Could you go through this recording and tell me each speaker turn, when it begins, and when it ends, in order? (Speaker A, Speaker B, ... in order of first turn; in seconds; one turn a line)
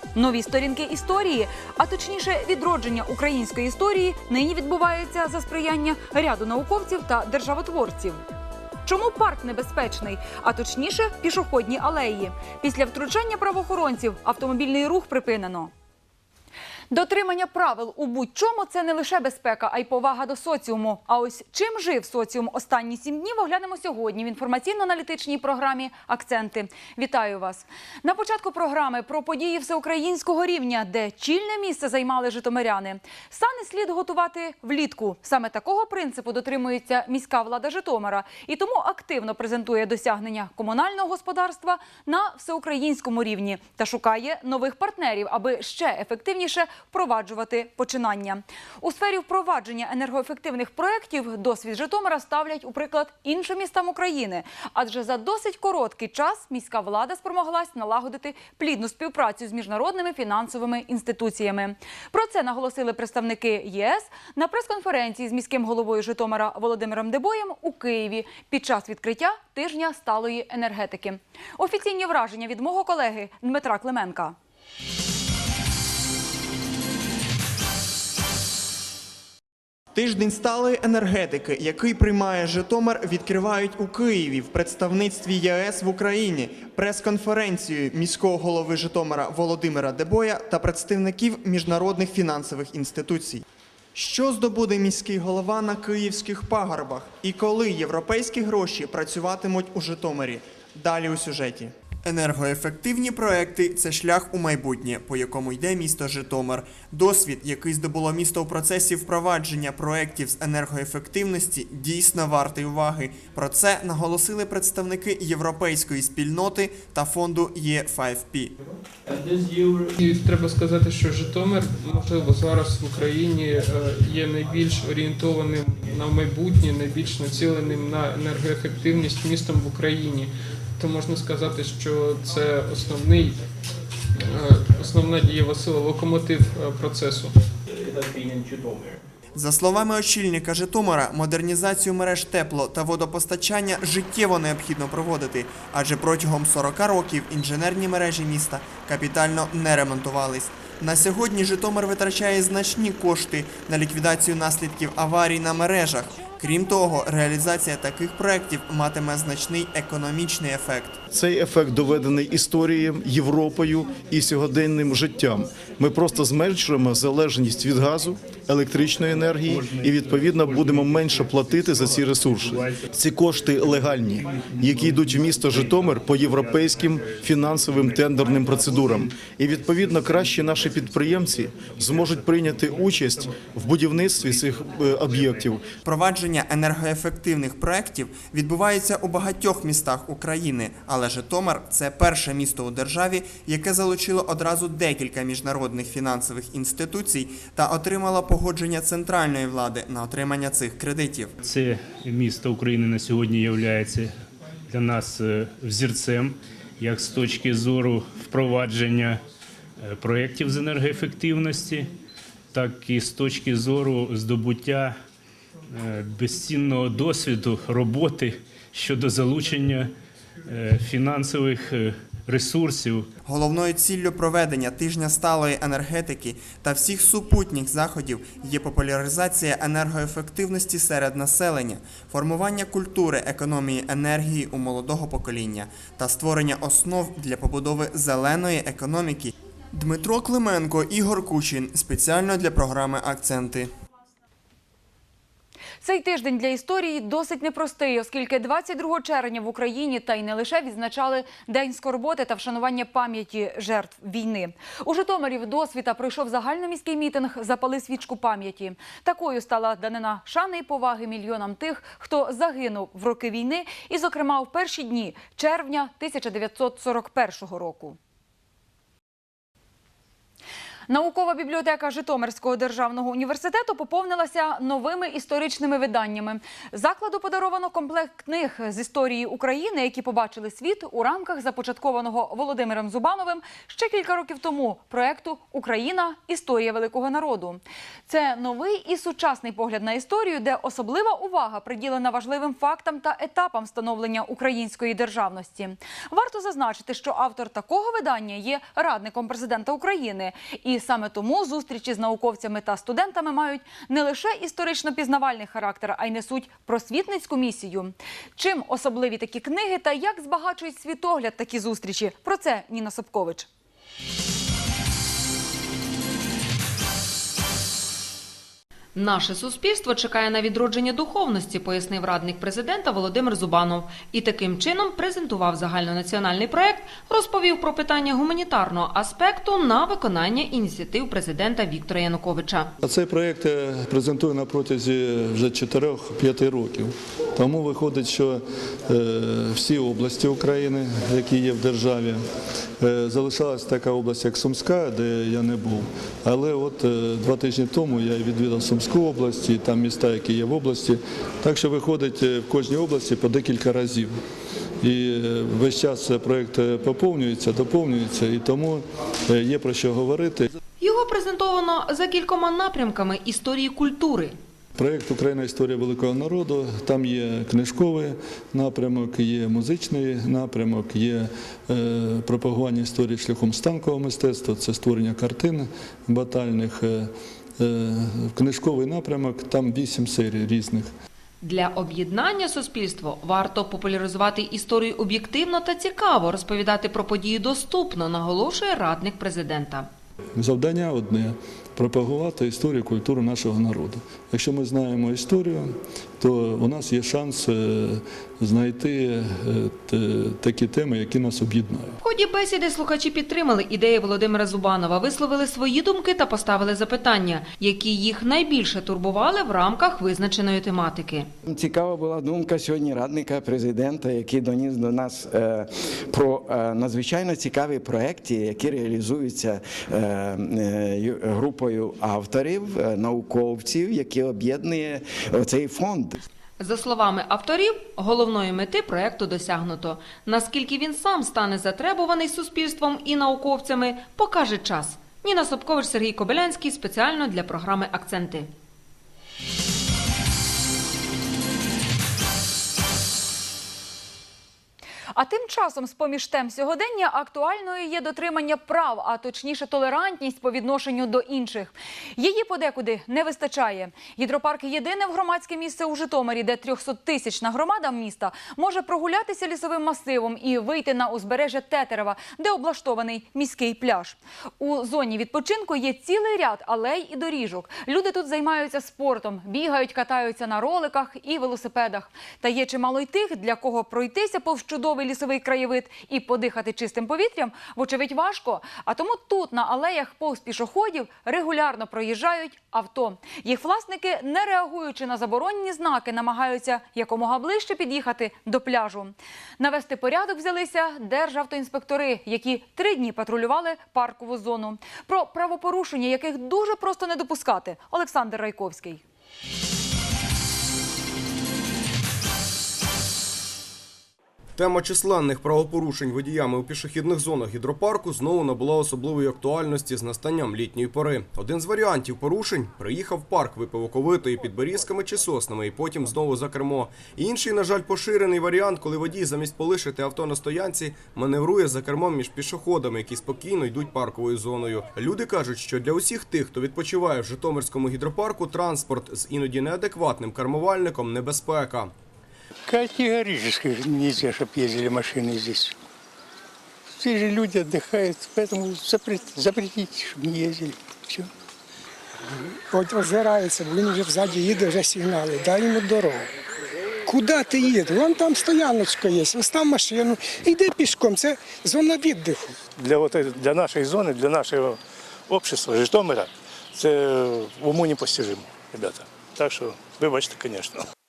Speaker A: 0.1-8.2
Speaker A: 8.8-15.7
Speaker A: 16.9-74.4
Speaker B: 80.0-93.4
Speaker B: 94.0-118.5
Speaker C: 120.0-133.4
Speaker C: 134.2-137.3
Speaker B: 139.3-161.0
Speaker D: 161.1-185.7
Speaker B: 185.8-201.3
Speaker E: 201.4-204.2
Speaker E: 204.7-209.2
Speaker E: 209.8-211.9
Speaker E: 212.5-215.0
Speaker E: 215.7-219.9
Speaker E: 220.5-223.1
Speaker B: 223.2-243.7
Speaker A: 245.8-268.0
Speaker A: 270.9-313.5
Speaker F: 318.9-332.7
Speaker G: 332.8-342.2
Speaker G: 342.8-354.1
Speaker G: 354.8-360.5
Speaker F: 360.8-364.4
Speaker G: 364.8-380.9
Speaker F: 381.4-389.9
Speaker G: 390.4-402.0
Speaker F: 402.0-411.3
Speaker H: 411.5-426.2
Speaker F: 426.6-438.5
Speaker A: 445.1-499.0
Speaker I: 504.6-531.9
Speaker J: 542.7-546.3
Speaker J: 547.1-552.6
Speaker K: 552.8-554.7
Speaker K: 555.3-560.8